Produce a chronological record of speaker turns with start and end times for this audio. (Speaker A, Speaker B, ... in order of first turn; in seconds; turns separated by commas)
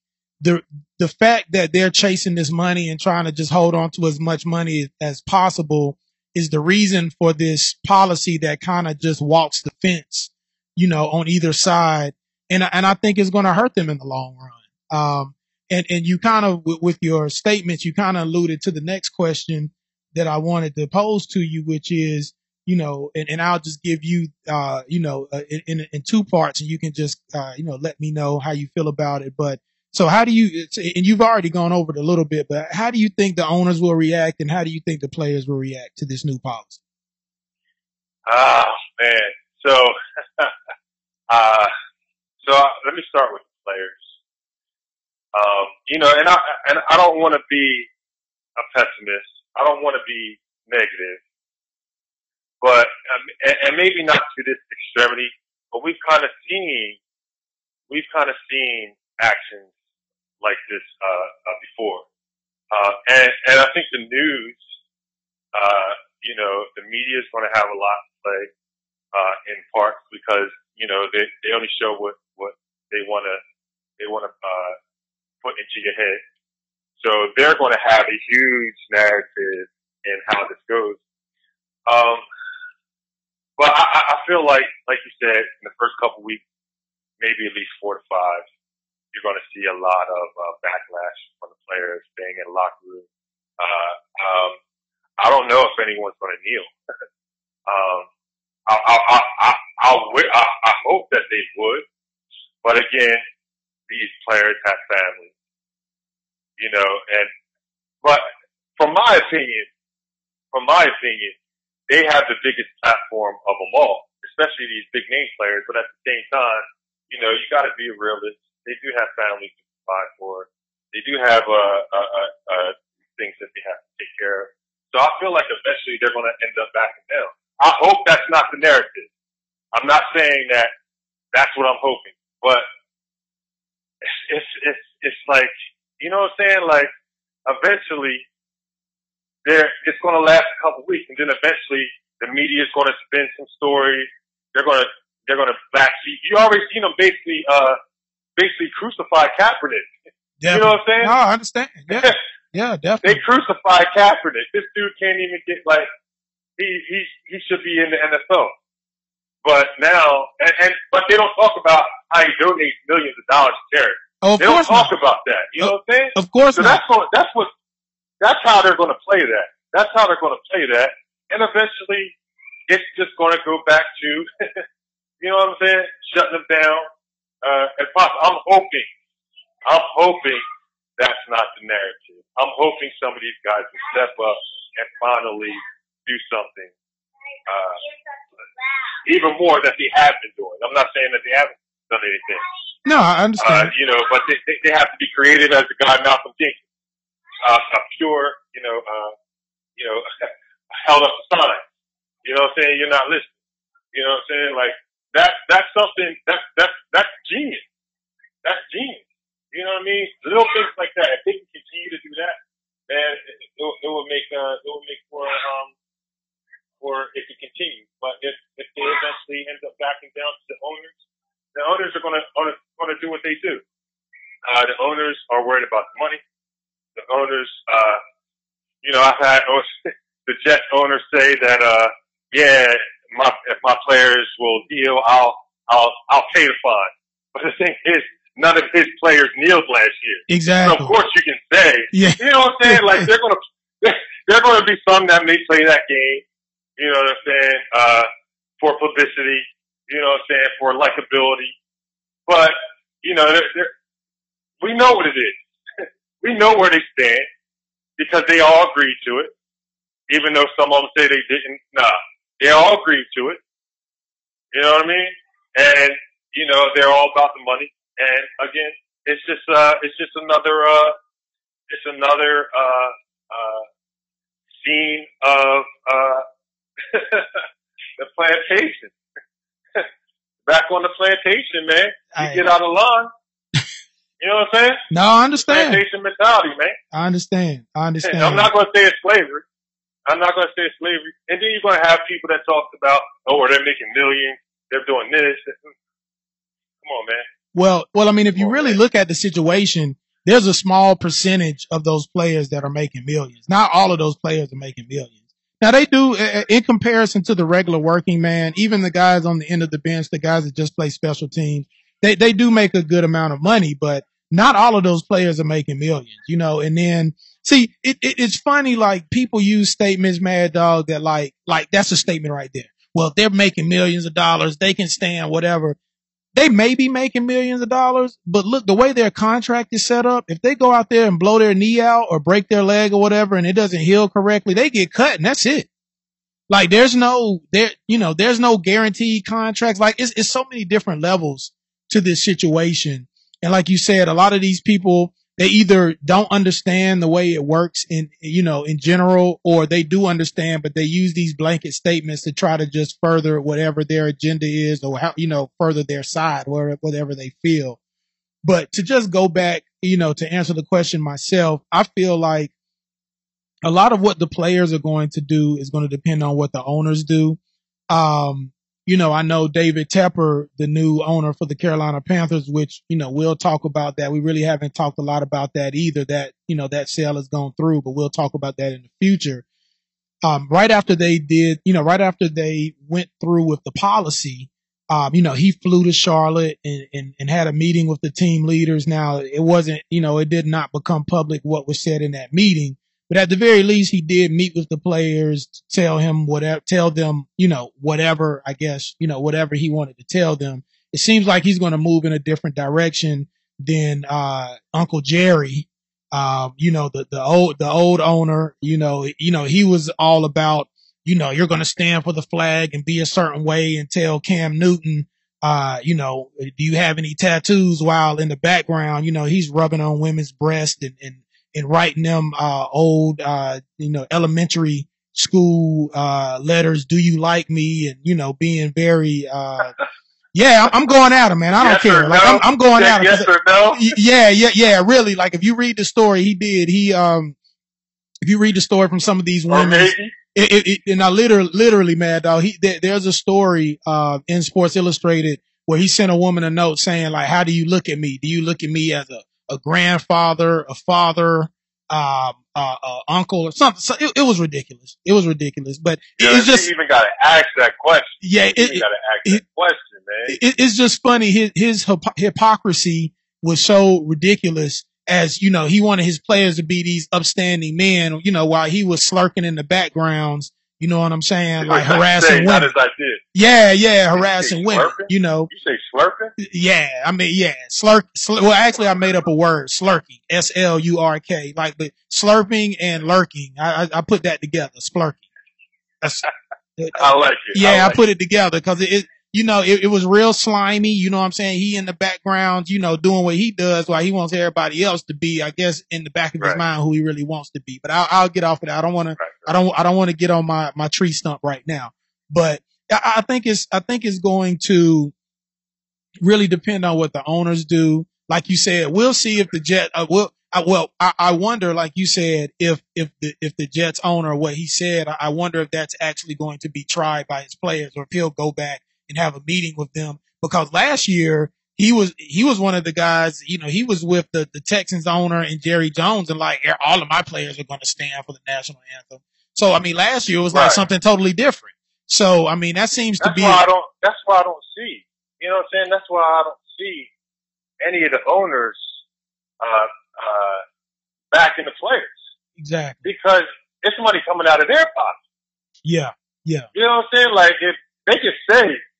Speaker A: 0.4-36.8, Speaker B: 38.3-40.5, Speaker B: 41.3-41.7, Speaker B: 42.4-44.0, Speaker B: 45.3-47.9, Speaker B: 48.6-51.2, Speaker B: 52.6-57.0, Speaker B: 57.9-59.7, Speaker B: 60.4-62.1, Speaker B: 62.7-64.6, Speaker B: 65.5-68.5, Speaker B: 69.1-73.4, Speaker B: 74.0-74.8, Speaker B: 75.4-76.2, Speaker B: 77.0-81.0, Speaker B: 81.9-82.2, Speaker B: 83.6-86.4, Speaker B: 87.2-88.4, Speaker B: 89.1-93.1, Speaker B: 93.6-94.6, Speaker B: 95.2-96.7, Speaker B: 97.7-98.1, Speaker B: 98.7-101.8, Speaker B: 102.6-103.2, Speaker B: 103.9-105.3, Speaker B: 106.6-107.3, Speaker B: 108.0-109.7, Speaker B: 110.5-111.3, Speaker B: 111.9-129.1, Speaker B: 129.7-130.7, Speaker B: 131.3-132.6, Speaker B: 134.1-136.9, Speaker B: 137.5-138.2, Speaker B: 139.4-147.8, Speaker B: 148.4-149.9, Speaker A: 150.4-153.2, Speaker B: 150.5-151.1, Speaker B: 151.9-152.2, Speaker B: 153.0-155.9, Speaker B: 156.6-158.5, Speaker B: 159.4-167.5, Speaker A: 164.2-164.9, Speaker A: 165.6-166.8, Speaker B: 168.2-172.1, Speaker B: 172.7-174.6, Speaker B: 175.2-176.9, Speaker B: 177.4-178.9, Speaker B: 179.7-180.4, Speaker B: 181.0-186.7, Speaker B: 187.4-187.8, Speaker B: 189.0-192.4, Speaker A: 192.8-193.7, Speaker B: 193.4-196.6, Speaker B: 197.4-199.1, Speaker B: 199.8-200.1, Speaker B: 200.7-201.6, Speaker B: 202.2-203.3, Speaker B: 203.9-207.6, Speaker B: 208.4-212.4, Speaker B: 212.9-215.7, Speaker B: 216.8-220.9, Speaker B: 221.6-223.6, Speaker B: 224.4-226.2, Speaker B: 226.9-228.0, Speaker B: 228.8-246.2, Speaker A: 240.3-240.9, Speaker A: 241.9-243.1, Speaker B: 246.8-248.1, Speaker B: 248.6-251.5, Speaker B: 252.3-253.7, Speaker B: 254.6-257.3, Speaker B: 258.0-259.3, Speaker B: 260.1-263.4, Speaker B: 264.5-270.9, Speaker B: 271.7-273.6, Speaker B: 274.6-276.2, Speaker B: 276.9-277.4, Speaker B: 278.0-278.9, Speaker B: 280.5-283.1, Speaker A: 282.1-282.4, Speaker B: 284.2-284.8, Speaker A: 284.9-285.8, Speaker B: 285.5-286.8, Speaker A: 286.9-288.5, Speaker B: 288.0-289.4, Speaker B: 290.1-295.6, Speaker B: 296.8-297.2, Speaker A: 297.5-325.8, Speaker B: 298.4-298.8, Speaker A: 326.4-335.7, Speaker A: 336.5-357.8, Speaker A: 358.4-362.5, Speaker A: 363.6-367.4, Speaker A: 367.9-379.4, Speaker A: 380.2-429.7, Speaker A: 430.3-437.4, Speaker B: 431.6-433.9, Speaker A: 438.2-456.7, Speaker B: 439.5-440.1, Speaker B: 456.2-460.4, Speaker A: 458.2-459.4, Speaker A: 460.3-472.7, Speaker B: 471.6-473.2, Speaker A: 473.3-475.5, Speaker B: 474.1-476.3, Speaker A: 476.4-485.2, Speaker A: 486.8-505.1, Speaker B: 486.9-488.0, Speaker B: 499.2-499.6, Speaker A: 506.2-533.6, Speaker B: 530.5-530.8, Speaker B: 533.2-537.1, Speaker B: 537.8-539.0, Speaker B: 539.6-540.6, Speaker B: 541.3-542.1, Speaker A: 542.6-543.0, Speaker B: 543.0-545.2, Speaker A: 545.9-546.7, Speaker B: 546.7-548.8